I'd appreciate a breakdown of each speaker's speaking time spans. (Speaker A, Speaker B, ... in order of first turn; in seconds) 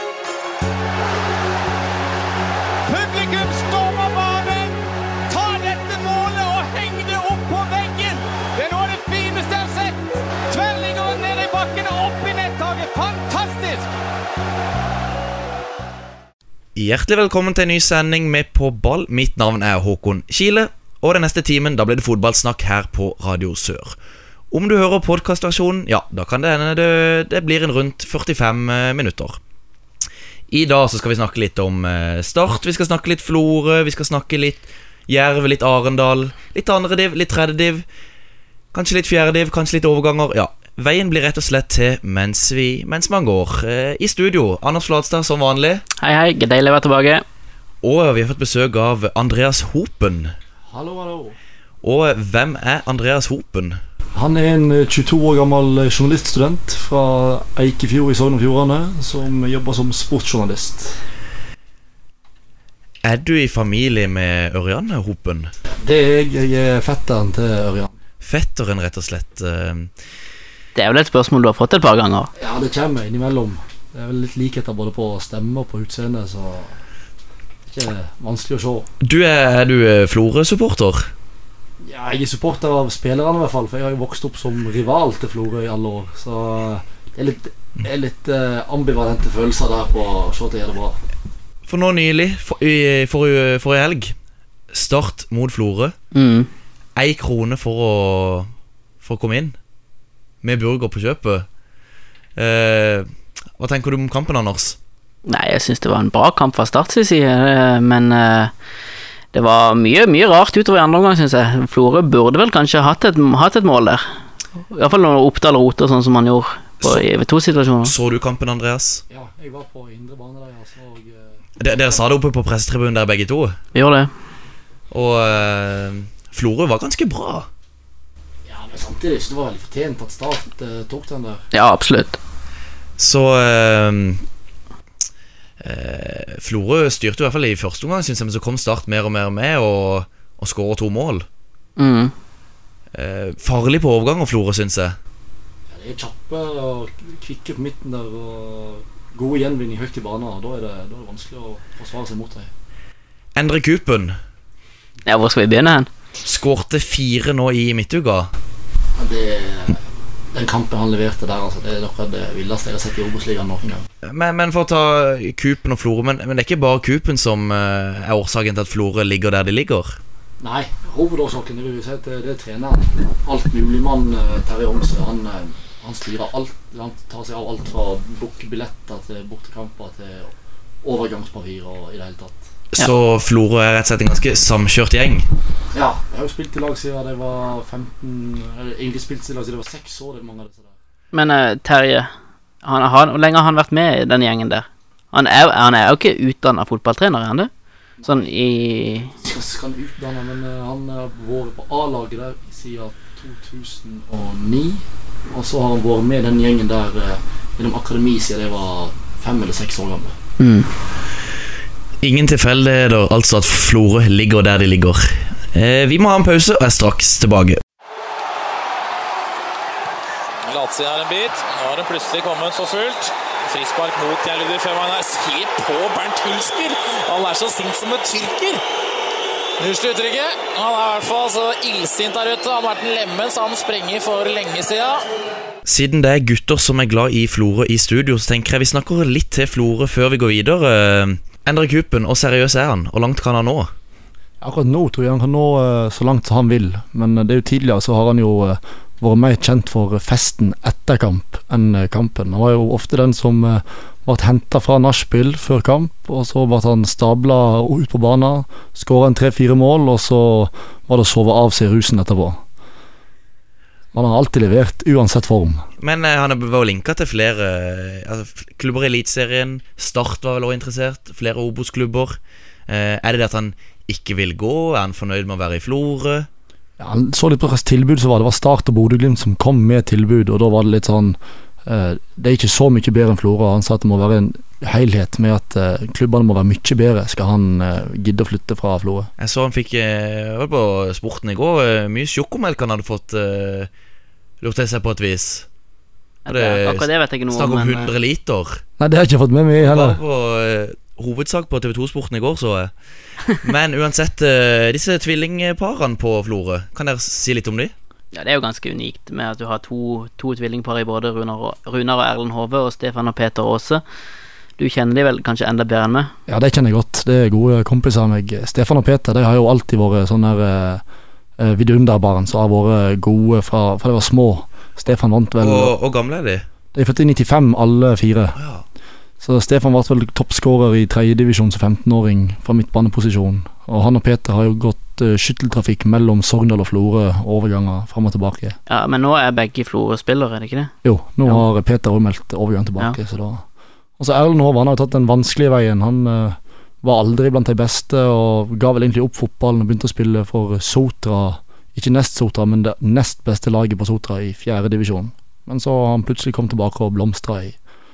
Speaker A: 2.9-13.9
Speaker B: 16.8-24.0, 24.5-29.4, 30.5-37.9, 38.7-45.8, 47.8-50.3, 51.8-53.8, 63.0-65.5, 68.2-69.9, 79.0-81.1, 91.7-94.1, 94.7-96.0, 97.0-98.5, 99.0-99.5, 100.4-101.5, 102.4-104.8, 117.8-119.0, 121.6-123.6, 124.9-127.5, 133.0-134.2, 135.6-141.3, 142.9-145.0, 153.4-154.2, 156.2-158.3, 164.0-170.0, 182.7-185.3, 212.0-217.6, 235.7-243.7, 265.8-276.3, 289.2-293.7, 294.4-295.5, 296.3-298.6, 299.6-302.7, 303.3-307.7, 325.4-326.4, 328.4-328.6
Speaker C: 46.0-47.2, 70.8-72.3, 96.1-96.5, 105.3-108.5, 109.3-114.0, 114.7-117.9, 123.8-124.1, 131.5-132.2, 141.8-142.1, 155.1-155.9, 191.1-192.1, 192.6-197.5, 198.1-199.2, 210.4-210.7, 296.3-297.9, 308.1-313.8, 314.6-316.1, 338.7-340.7
Speaker D: 50.7-51.4, 54.1-61.0, 65.7-67.9, 72.4-76.8, 77.7-78.9, 81.8-91.0, 119.1-122.0, 128.5-131.4, 145.7-152.5, 159.0-159.8, 160.3-163.8, 170.4-182.4, 185.7-190.7, 199.2-210.2, 244.4-262.4, 263.9-265.6, 276.8-289.1, 298.8-300.0, 316.3-320.8, 321.4-325.7, 326.7-328.4, 329.2-338.6, 340.8-343.4, 344.0-357.6
Speaker E: 220.4-228.6, 229.6-235.0